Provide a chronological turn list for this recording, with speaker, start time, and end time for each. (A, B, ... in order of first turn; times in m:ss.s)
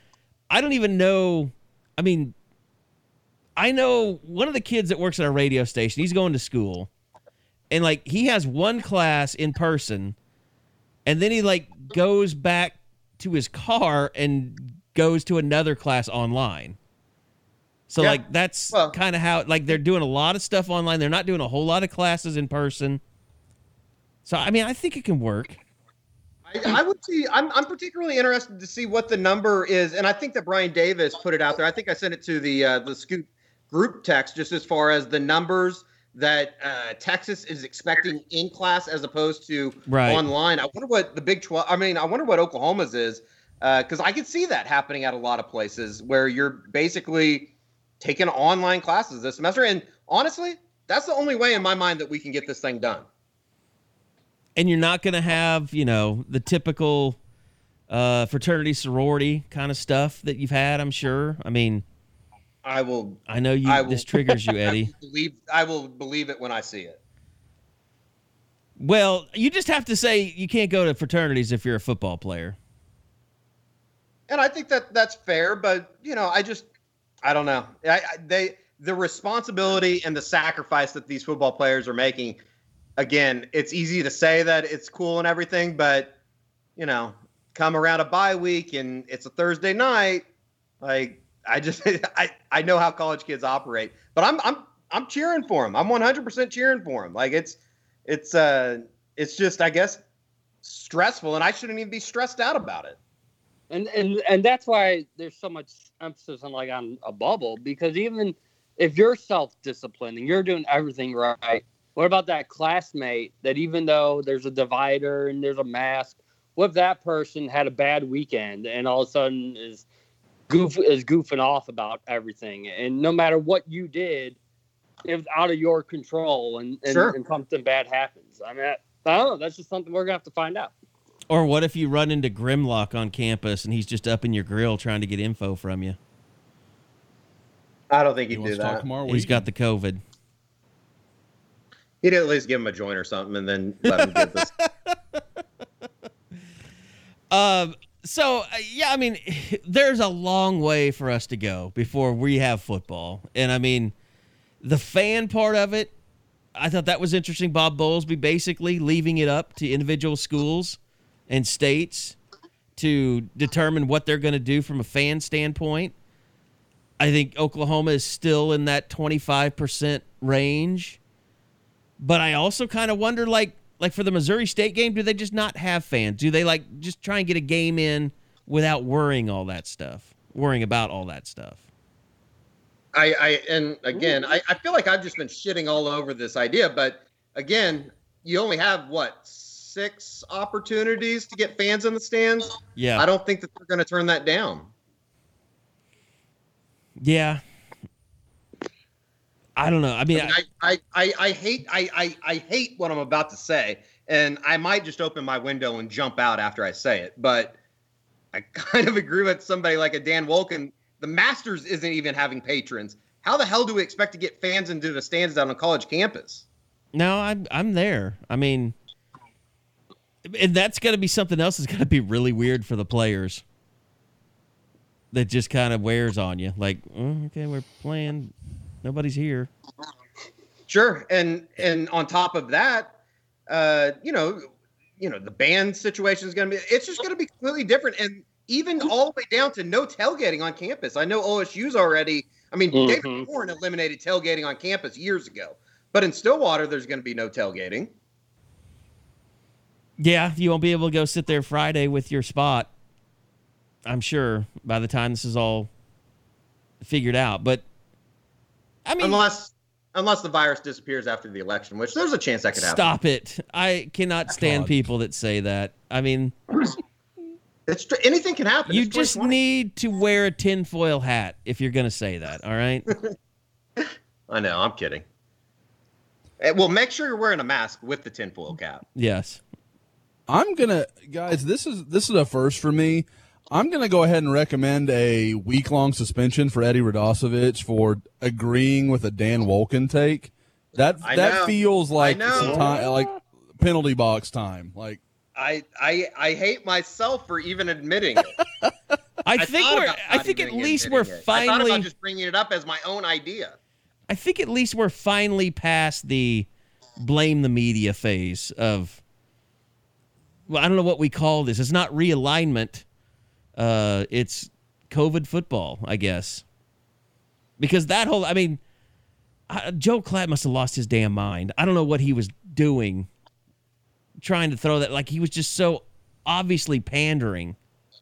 0:00.5-0:02.3 A
0:03.6-0:06.9 A
0:07.7-0:10.1 A
0:11.0-0:16.8 A
0:17.9-0:23.0 A
0:24.2-0:25.6 A
0:26.5-0:53.0 B
0:39.9-0:40.2 A
0:54.6-0:57.2 A
0:57.9-1:01.8 A
1:02.6-1:07.0 B
1:03.3-1:04.9 A
1:08.8-1:12.6 A
1:14.3-1:16.7 B
1:17.2-1:22.4 B
1:23.0-1:26.2 B
1:26.8-1:30.2 B
1:30.8-1:40.0 B
1:40.6-1:43.0 B
1:43.7-1:59.8 C
2:00.5-2:04.4 C
2:05.0-2:10.7 C
2:06.9-2:07.1 B
2:11.3-2:16.0 A
2:17.9-2:18.8 B
2:18.3-2:19.4 D
2:19.0-2:20.0 A
2:22.0-2:24.5 B
2:23.9-2:25.2 A
2:27.3-2:33.9 A
2:34.6-2:35.9 A
2:36.5-2:42.2 A
2:42.8-2:45.9 A
2:47.0-2:51.0 A
2:52.0-3:01.6 A
3:02.9-3:14.7 B
3:12.8-3:13.0 A
3:17.0-3:17.4 A
3:19.6-3:20.4 A
3:20.1-3:27.5 B
3:28.3-3:36.4 B
3:36.9-3:38.7 A
3:40.2-3:43.4 A
3:45.1-3:49.5 A
3:50.7-3:52.9 B
3:53.5-4:07.9 B
4:02.7-4:03.2 C
4:10.0-4:12.7 A
4:13.8-4:15.7 A
4:16.8-4:17.6 A
4:18.8-4:19.2 A
4:19.0-4:22.9 B
4:22.5-4:26.3 A
4:24.4-4:24.8 D
4:27.7-4:29.4 B
4:28.7-4:32.9 A
4:33.8-4:35.0 B
4:36.4-4:38.8 B
4:38.9-4:39.4 A
4:40.3-4:55.0 D
4:51.0-4:52.8 B
4:52.3-4:53.0 C
4:55.4-4:58.4 B
4:59.2-5:01.9 A
4:59.4-5:03.6 B
5:04.1-5:06.5 A
5:07.0-5:09.0 A
5:10.5-5:12.8 A
5:13.6-5:16.4 A
5:17.6-5:18.6 A
5:19.5-5:23.1 A
5:24.2-5:27.6 A